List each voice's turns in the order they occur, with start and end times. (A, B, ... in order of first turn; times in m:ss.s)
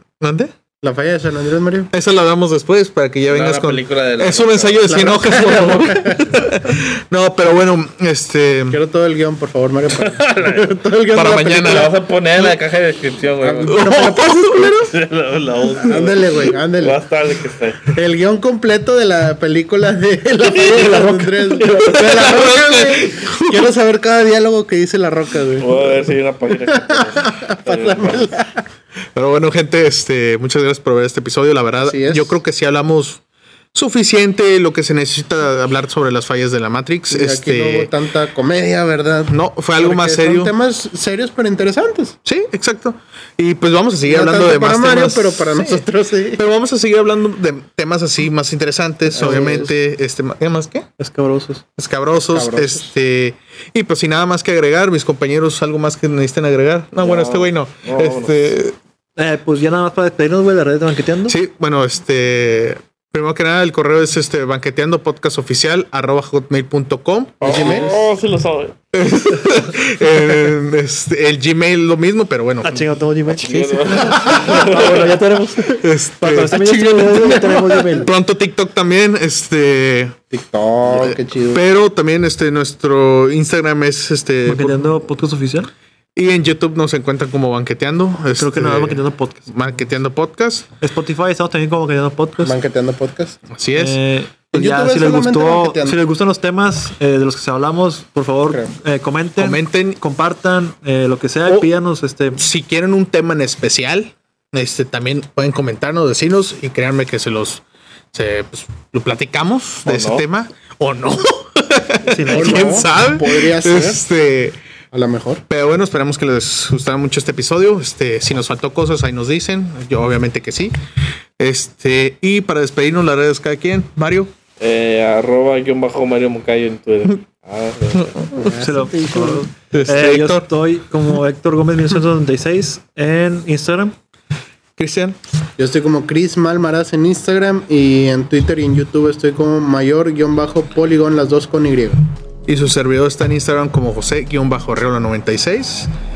0:00.2-0:00.5 A
0:00.8-0:01.9 B
0:01.9-0:08.8 A
0:03.3-0:05.1 C
0:04.8-0:06.3 B
0:08.7-0:11.9 B
0:09.9-0:10.8 C
0:11.1-0:12.6 A
0:11.6-0:13.8 C
0:13.4-0:14.9 B
0:13.6-0:14.9 A
0:14.9-0:17.9 C
0:15.8-0:17.0 B
0:17.9-0:26.2 B
0:20.4-0:22.4 C
0:21.9-0:23.7 A
0:25.6-0:28.3 C
0:26.7-0:28.6 B
0:29.2-0:33.2 A
0:31.8-0:32.3 B
0:33.7-0:37.9 A
0:37.1-0:42.2 B
0:39.3-0:40.5 A
0:42.2-0:50.9 A
0:44.1-0:46.4 B
0:49.2-0:49.7 B
0:49.2-0:49.7 D
0:51.0-0:51.6 D
0:51.8-0:58.8 A
0:52.3-0:52.8 B
0:57.0-0:58.4 C
0:59.2-1:01.4 D
1:01.3-1:08.0 A
1:07.4-1:08.8 C
1:07.5-1:07.9 B
1:08.9-1:14.8 A
1:12.6-1:18.1 D
1:13.4-1:15.0 C
1:15.7-1:17.4 A
1:16.8-1:18.0 B
1:18.0-1:20.2 A
1:20.3-1:21.6 B
1:20.9-1:24.8 A
1:24.5-1:25.7 D
1:26.2-1:30.7 A
1:28.4-1:29.5 D
1:30.8-1:32.6 D
1:32.4-1:33.4 B
1:33.5-1:34.0 A
1:33.8-1:42.4 D
1:34.5-1:36.0 B
1:39.4-1:40.0 A
1:42.4-1:54.6 A
1:49.9-1:50.2 C
1:52.1-1:52.9 D
1:52.3-1:54.0 B
1:54.9-1:55.4 B
1:55.5-2:00.8 A
2:01.4-2:04.3 A
2:04.6-2:08.3 C
2:08.4-2:09.4 B
2:08.6-2:14.0 D
2:09.7-2:10.5 A
2:14.8-2:15.2 A
2:15.6-2:22.0 B
2:22.5-2:25.9 A